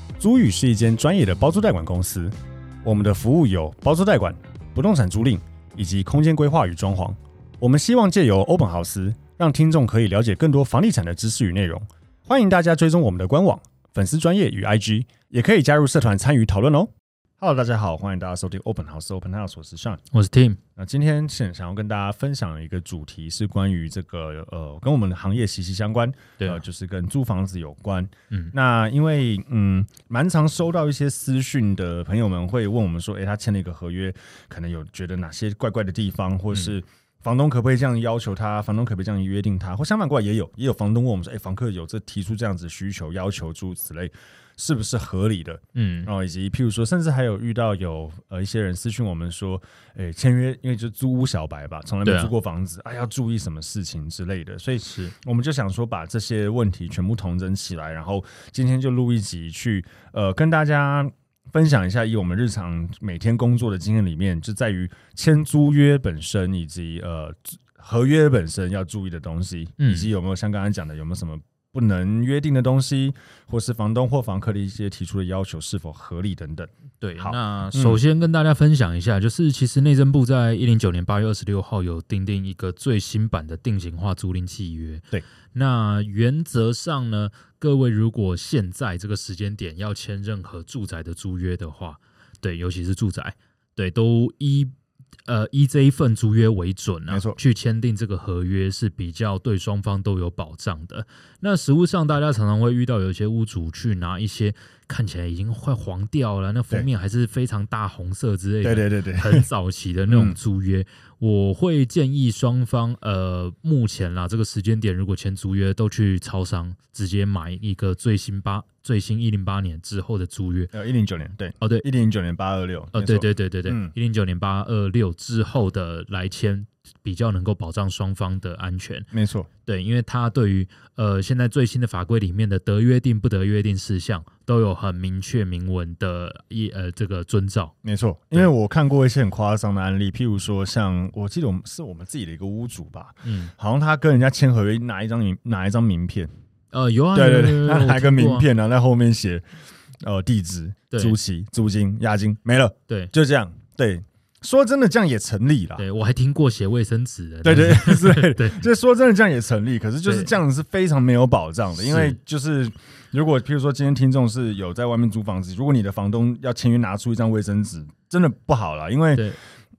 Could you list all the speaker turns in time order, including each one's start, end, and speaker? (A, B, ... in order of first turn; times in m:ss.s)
0:00.2-0:20.0 A
0:20.1-0:20.6 B
0:20.8-1:18.0 A
0:45.7-0:46.1 B
0:52.0-0:52.3 B
0:54.8-0:55.1 B
1:09.8-1:10.1 B
1:17.0-1:34.7 B
1:35.2-2:00.7 B
1:37.1-1:37.4 A
1:48.6-1:49.4 A
1:50.1-1:50.4 A
2:00.7-2:03.9 A
2:01.6-2:01.8 B
2:02.9-2:09.1 B
2:09.1-2:09.5 A
2:09.6-2:17.7 B
2:17.8-2:26.3 A
2:23.2-2:23.5 B
2:26.7-2:28.5 B
2:27.1-2:29.4 A
2:30.0-2:35.8 A
2:30.9-2:31.2 B
2:35.8-2:38.7 B
2:37.4-2:49.3 A
2:40.0-2:40.3 B
2:41.8-2:42.2 B